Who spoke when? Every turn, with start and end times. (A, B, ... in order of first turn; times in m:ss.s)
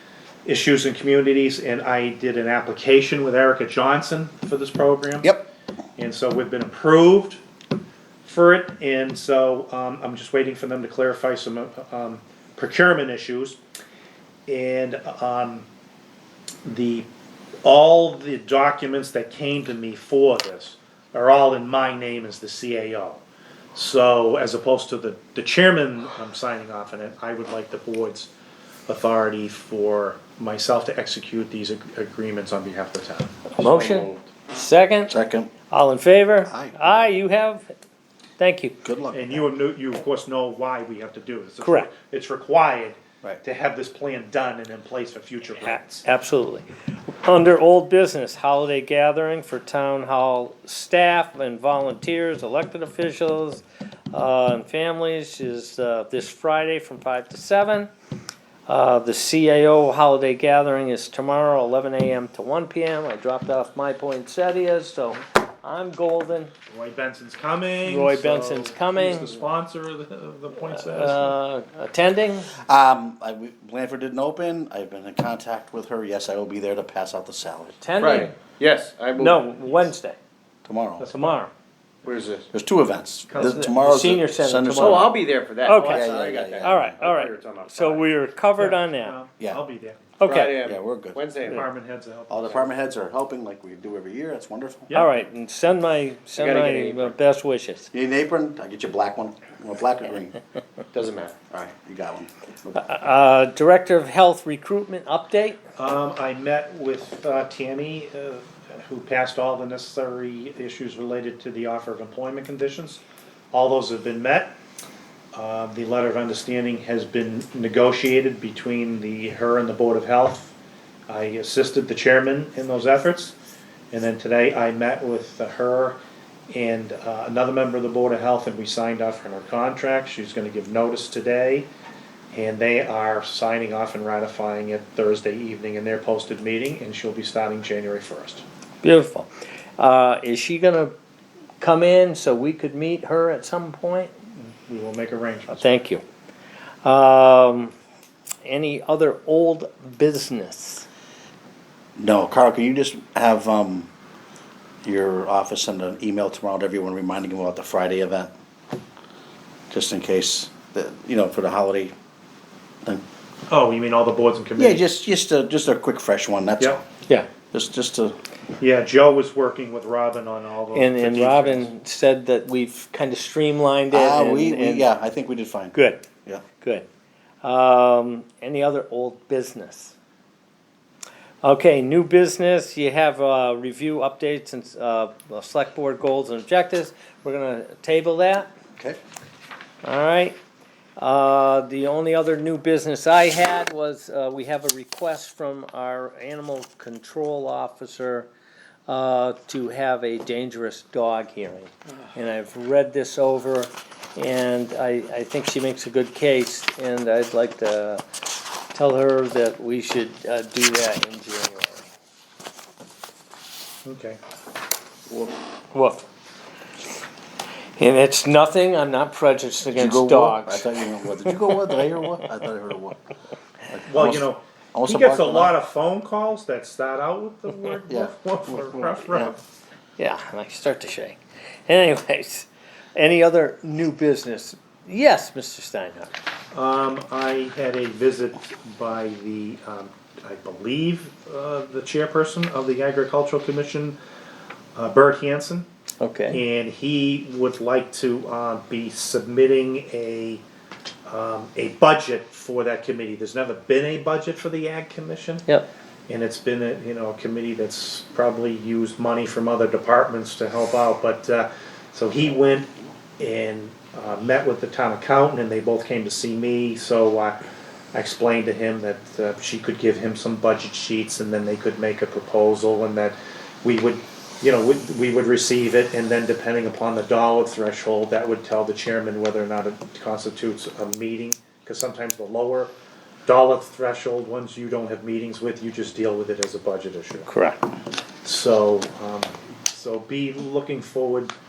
0:00.4-0:05.4 A
0:05.2-0:05.5 B
0:06.0-0:07.4 A
0:08.2-0:13.6 A
0:14.5-0:15.7 A
0:16.6-0:17.1 A
0:17.6-0:23.2 A
0:23.7-0:28.3 A
0:28.9-0:33.4 A
0:33.5-0:35.1 C
0:33.6-0:34.3 D
0:35.1-0:35.5 B
0:35.7-0:37.7 C
0:36.5-0:37.1 B
0:38.4-0:38.8 C
0:38.8-0:39.4 B
0:39.1-0:46.1 A
0:41.6-0:41.9 C
0:45.6-0:46.7 C
0:47.2-0:57.9 C
0:58.7-1:06.5 C
1:06.7-1:11.4 A
1:07.8-1:09.3 C
1:10.6-1:12.5 C
1:12.5-1:17.8 B
1:17.8-1:18.4 C
1:18.0-1:19.9 D
1:19.2-1:20.2 C
1:20.6-1:21.1 B
1:21.0-1:21.4 A
1:21.1-1:21.5 C
1:22.0-1:22.5 D
1:22.5-1:25.2 B
1:23.3-1:23.8 A
1:23.4-1:29.2 C
1:24.7-1:28.1 D
1:25.9-1:26.9 B
1:28.6-1:30.0 A
1:30.2-1:30.6 C
1:30.2-1:31.7 D
1:30.5-1:31.2 B
1:31.4-1:32.6 A
1:32.3-1:34.9 B
1:34.9-1:35.2 A
1:34.9-1:37.9 C
1:36.4-1:37.2 D
1:37.9-1:40.4 B
1:40.9-1:41.5 D
1:41.5-1:42.3 B
1:42.7-1:45.6 C
1:45.8-1:53.0 A
1:53.5-1:54.6 A
1:55.3-2:00.6 A
2:01.1-2:03.4 A
2:03.9-2:06.0 A
2:06.5-2:11.7 A
2:12.3-2:18.4 A
2:18.8-2:20.9 C
2:21.6-2:24.1 C
2:24.4-2:25.7 A
2:25.5-2:26.0 C
2:26.8-2:27.7 C
2:28.4-2:30.9 C
2:32.0-2:33.9 B
2:34.8-2:38.3 B
2:39.7-2:41.9 B
2:43.5-2:44.8 A
2:44.6-2:46.8 B
2:47.5-2:48.2 B
2:48.6-2:51.7 A
2:50.7-2:54.9 C
2:53.9-2:55.8 B
2:55.7-2:56.0 C
2:56.6-2:56.9 C
2:57.4-2:59.9 C
3:01.4-3:08.5 C
3:09.8-3:10.4 C
3:11.0-3:18.3 C
3:18.9-3:28.0 C
3:28.7-3:31.9 C
3:33.8-3:34.2 A
3:35.7-3:36.0 C
3:37.8-3:41.4 C
3:39.7-3:43.0 B
3:43.7-3:45.5 B
3:43.9-3:49.4 A
3:47.9-3:49.4 B
3:50.0-3:56.1 C
3:56.5-4:04.0 A
4:04.8-4:05.7 A
4:06.0-4:06.4 C
4:06.3-4:10.4 A
4:11.1-4:15.4 A
4:16.1-4:27.4 A
4:27.9-4:42.7 A
4:43.3-4:47.3 A
4:47.3-4:47.6 C
4:48.2-4:51.3 A